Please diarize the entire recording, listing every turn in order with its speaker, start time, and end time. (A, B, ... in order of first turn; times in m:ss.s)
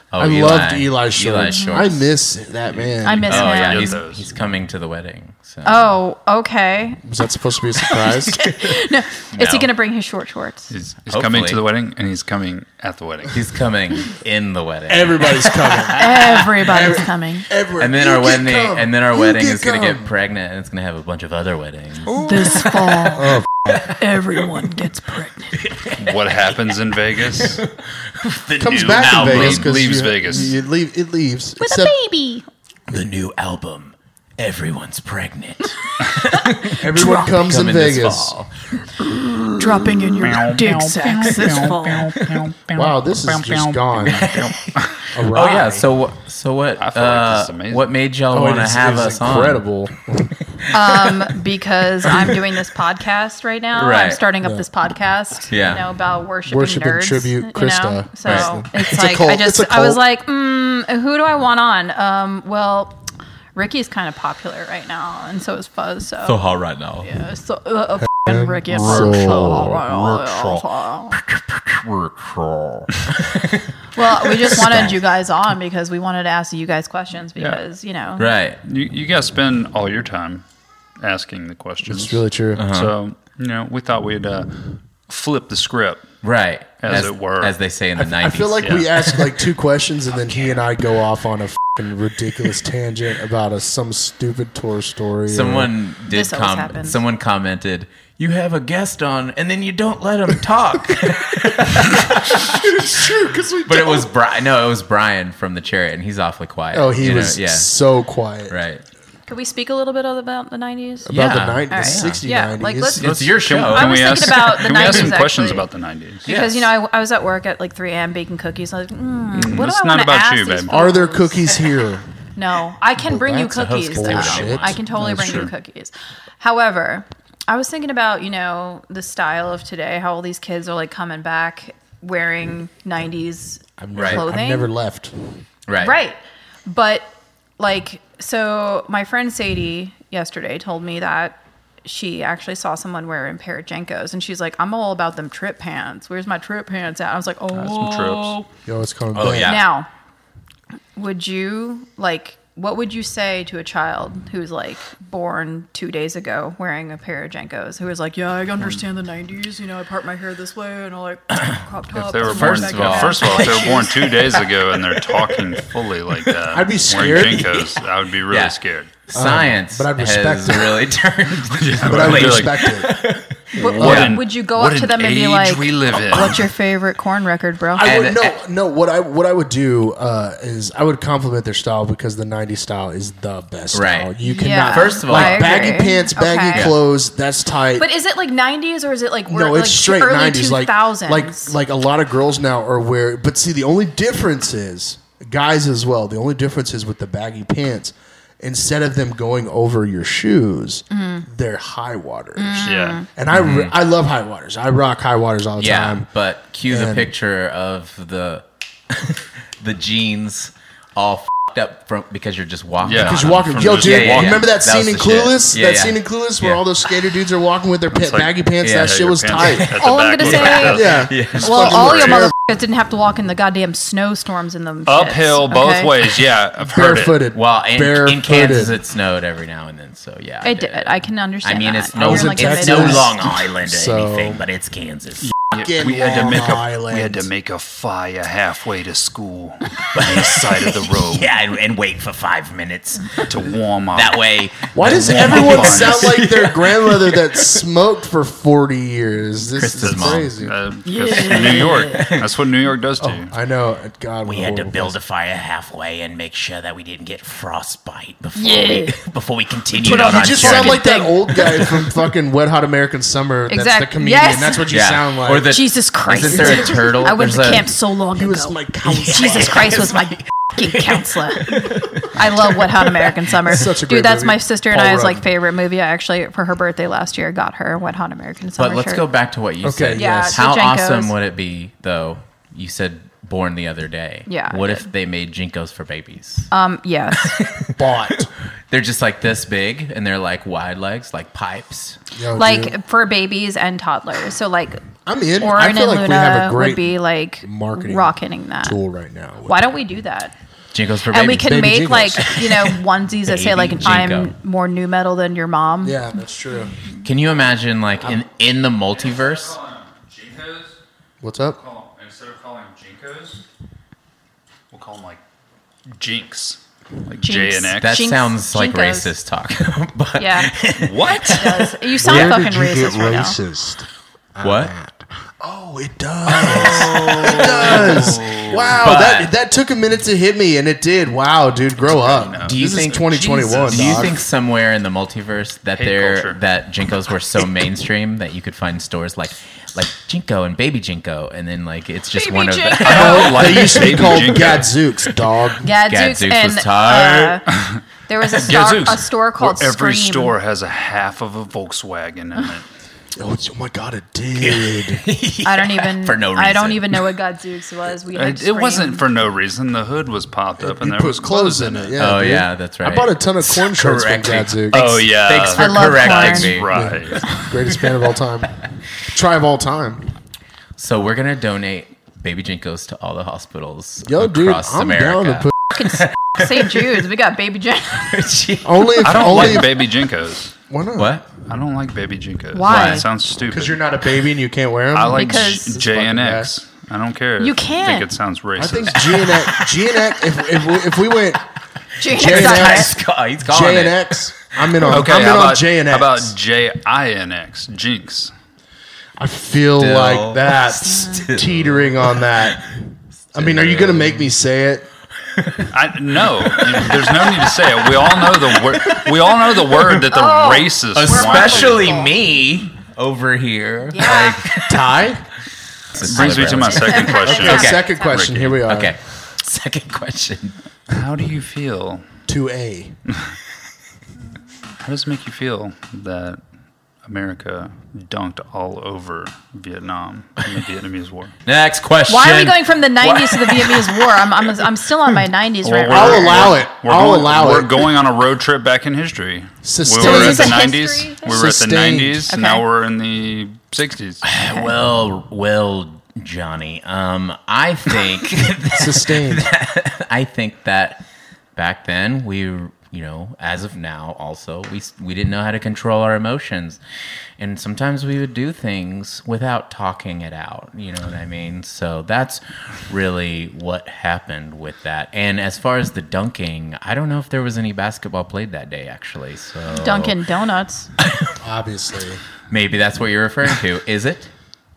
0:00.1-0:02.1 A
0:00.2-0:03.5 B
0:01.5-0:01.8 C
0:02.7-0:04.3 D
0:03.0-0:04.0 C
0:03.2-0:05.9 A
0:05.6-0:07.0 C
0:07.0-0:08.5 B
0:07.8-0:10.7 C
0:09.3-0:09.7 A
0:10.7-0:13.4 D
0:11.1-0:11.6 A
0:13.3-0:15.5 A
0:14.9-0:20.1 B
0:15.9-0:17.5 C
0:17.8-0:23.2 A
0:22.2-0:25.6 C
0:23.1-0:23.9 B
0:25.5-0:29.8 A
0:26.0-0:27.6 D
0:28.6-0:31.9 B
0:29.1-0:30.6 D
0:31.6-0:32.4 C
0:32.9-0:38.5 A
0:36.5-0:37.4 C
0:36.7-0:38.3 B
0:39.1-0:42.1 C
0:40.2-0:44.9 D
0:42.2-0:42.4 A
0:42.7-0:44.4 B
0:44.0-0:49.6 A
0:45.1-0:45.8 B
0:46.8-0:47.9 D
0:48.3-0:50.4 B
0:50.6-0:51.0 A
0:50.7-1:03.0 C
0:52.0-0:52.4 A
0:53.8-0:54.2 A
0:55.5-0:55.8 A
0:56.5-1:00.0 B
0:58.2-0:58.5 A
1:03.6-1:06.4 C
1:06.2-1:07.1 A
1:07.0-1:11.2 C
1:08.3-1:09.7 B
1:08.8-1:13.7 A
1:14.0-1:18.3 C
1:14.2-1:15.0 A
1:18.2-1:18.6 A
1:18.6-1:20.4 D
1:21.0-1:26.1 D
1:21.8-1:22.6 B
1:22.6-1:22.9 A
1:26.2-1:28.7 A
1:26.8-1:27.6 D
1:28.0-1:35.7 B
1:28.6-1:28.9 D
1:35.3-1:43.1 A
1:36.1-1:37.0 C
1:42.2-1:44.1 B
1:43.6-1:47.7 A
1:46.7-1:48.6 B
1:48.5-1:48.8 A
1:49.3-1:55.7 C
1:51.1-1:53.1 B
1:51.1-1:52.2 A
1:53.0-1:55.3 A
1:53.0-1:56.3 D
1:56.2-2:01.8 C
1:56.3-1:56.7 A
1:59.3-2:00.9 D
2:00.7-2:02.1 B
2:02.4-2:14.7 C
2:03.0-2:05.4 B
2:03.5-2:04.8 A
2:05.0-2:05.5 D
2:13.8-2:15.4 B
2:13.9-2:14.2 A
2:15.7-2:16.0 A
2:15.8-2:28.5 C
2:27.5-2:28.4 D
2:28.7-2:29.6 B
2:29.1-2:29.6 A
2:29.4-2:29.9 C
2:31.0-2:44.2 C
2:41.9-2:48.9 D
2:42.2-2:43.8 A
2:46.5-2:47.5 B
2:47.0-2:54.2 A
2:49.1-2:50.8 B
2:51.5-2:52.7 D
2:51.8-2:53.0 B
2:53.5-2:54.0 B
2:53.6-2:58.0 C
2:53.7-2:56.4 D
2:56.1-2:56.5 B
2:57.8-2:58.4 A
2:57.8-3:07.9 B
3:03.7-3:04.1 A
3:04.2-3:06.8 C
3:04.7-3:05.7 A
3:06.5-3:06.8 A
3:07.8-3:11.6 C
3:09.3-3:26.1 B
3:20.9-3:21.2 C
3:22.4-3:23.1 C
3:22.6-3:23.0 D
3:23.3-3:23.8 A
3:25.6-3:36.0 A
3:26.7-3:27.1 B
3:32.8-3:34.5 D
3:32.9-3:39.7 B
3:37.9-3:42.3 D
3:38.6-3:41.5 A
3:39.7-3:45.9 C
3:40.7-3:42.3 B
3:44.9-3:47.2 D
3:46.7-3:48.8 B
3:47.3-3:55.3 A
3:50.4-3:53.1 C
3:52.0-3:54.4 B
3:55.2-4:01.3 D
3:55.5-3:57.3 B
3:59.9-4:03.4 A
4:03.2-4:04.2 D
4:04.0-4:07.6 A
4:04.7-4:10.6 B
4:04.8-4:06.2 D
4:09.5-4:10.4 A
4:09.8-4:13.3 D
4:10.8-4:12.0 C
4:11.1-4:12.3 A
4:13.0-4:15.0 B
4:14.2-4:20.8 A
4:18.4-4:19.0 C
4:19.8-4:21.7 C
4:19.8-4:25.5 B
4:21.4-4:21.8 A
4:23.5-4:24.7 C
4:24.7-4:27.7 A
4:25.4-4:39.0 C
4:26.3-4:26.9 B
4:28.2-4:30.0 B
4:29.0-4:33.3 A
4:33.5-4:35.3 B
4:38.6-4:46.5 A
4:39.6-4:40.4 B
4:39.9-4:41.1 C
4:44.3-4:44.9 C
4:46.5-4:47.4 C
4:47.1-4:52.0 A
4:47.8-4:48.3 B
4:52.1-4:52.8 B
4:52.3-4:54.8 C
4:55.1-4:59.7 B
4:55.4-4:58.8 C
4:59.4-5:00.3 C
5:00.7-5:01.7 A
5:01.1-5:06.0 C
5:01.4-5:02.7 B
5:03.3-5:04.3 A
5:05.8-5:06.8 B
5:07.0-5:09.6 A
5:09.0-5:10.8 D
5:11.2-5:11.6 B
5:11.6-5:13.4 D
5:14.7-5:15.2 D
5:15.9-5:17.9 D
5:17.2-5:19.1 C
5:17.8-5:22.4 A
5:20.2-5:20.5 C
5:20.8-5:21.5 D
5:21.2-5:23.4 C
5:21.9-5:34.1 B
5:24.4-5:24.7 A
5:26.3-5:29.3 A
5:27.4-5:28.8 D
5:31.8-5:32.6 D
5:32.4-5:43.6 A
5:33.4-5:34.1 D
5:35.8-5:36.4 D
5:42.1-5:43.9 C
5:42.8-5:44.8 D
5:42.9-5:45.7 B
5:45.6-5:47.5 C
5:45.8-5:47.4 A
5:47.5-5:47.8 D
5:48.1-5:50.4 C
5:48.4-5:52.7 D
5:53.2-5:55.1 B
5:54.4-5:57.1 A
5:55.4-5:59.0 C
5:58.1-6:01.9 D
6:00.6-6:05.0 B
6:02.0-6:07.0 A
6:04.7-6:07.3 D
6:05.5-6:06.6 C
6:06.7-6:10.1 B
6:10.8-6:17.0 A
6:14.1-6:15.8 B
6:15.7-6:18.3 C
6:18.0-6:19.7 A
6:18.6-6:19.8 B
6:19.0-6:20.6 D
6:20.7-6:21.2 B
6:21.0-6:21.2 A
6:21.5-6:23.8 D
6:22.5-6:23.1 C
6:22.7-6:23.1 A
6:23.5-6:26.5 B
6:24.9-6:29.3 D
6:25.1-6:25.8 C
6:27.4-6:28.1 C
6:28.6-6:31.4 B
6:32.0-6:32.9 C
6:32.0-6:36.3 B
6:32.1-6:34.8 A
6:34.9-6:38.3 D
6:39.2-6:42.8 B
6:39.8-6:42.6 A
6:40.8-6:41.3 C
6:43.3-6:44.3 A
6:43.4-6:44.9 B
6:45.2-6:45.8 A
6:45.7-6:51.9 D
6:46.3-6:49.9 A
6:50.1-6:52.2 C
6:51.0-6:55.1 A
6:53.9-6:54.5 C
6:54.1-6:55.2 B
6:55.9-6:57.9 A
6:56.0-6:58.6 D
6:56.6-6:58.3 C
6:57.2-6:59.0 B
6:58.6-7:00.6 A
7:00.9-7:02.0 D
7:02.3-7:03.0 B
7:04.8-7:06.4 D
7:07.0-7:11.3 D
7:11.4-7:14.3 A
7:12.1-7:16.6 C
7:15.6-7:24.3 D
7:15.9-7:17.9 B
7:19.6-7:20.7 B
7:20.0-7:21.6 C
7:21.2-7:22.3 B
7:22.3-7:22.6 C
7:24.2-7:31.0 A
7:24.4-7:24.7 C
7:28.7-7:29.5 B
7:31.6-7:36.8 A
7:37.4-7:50.2 A
7:49.7-7:50.9 C
7:51.0-7:51.3 A
7:51.4-7:52.2 B
7:52.5-7:54.3 A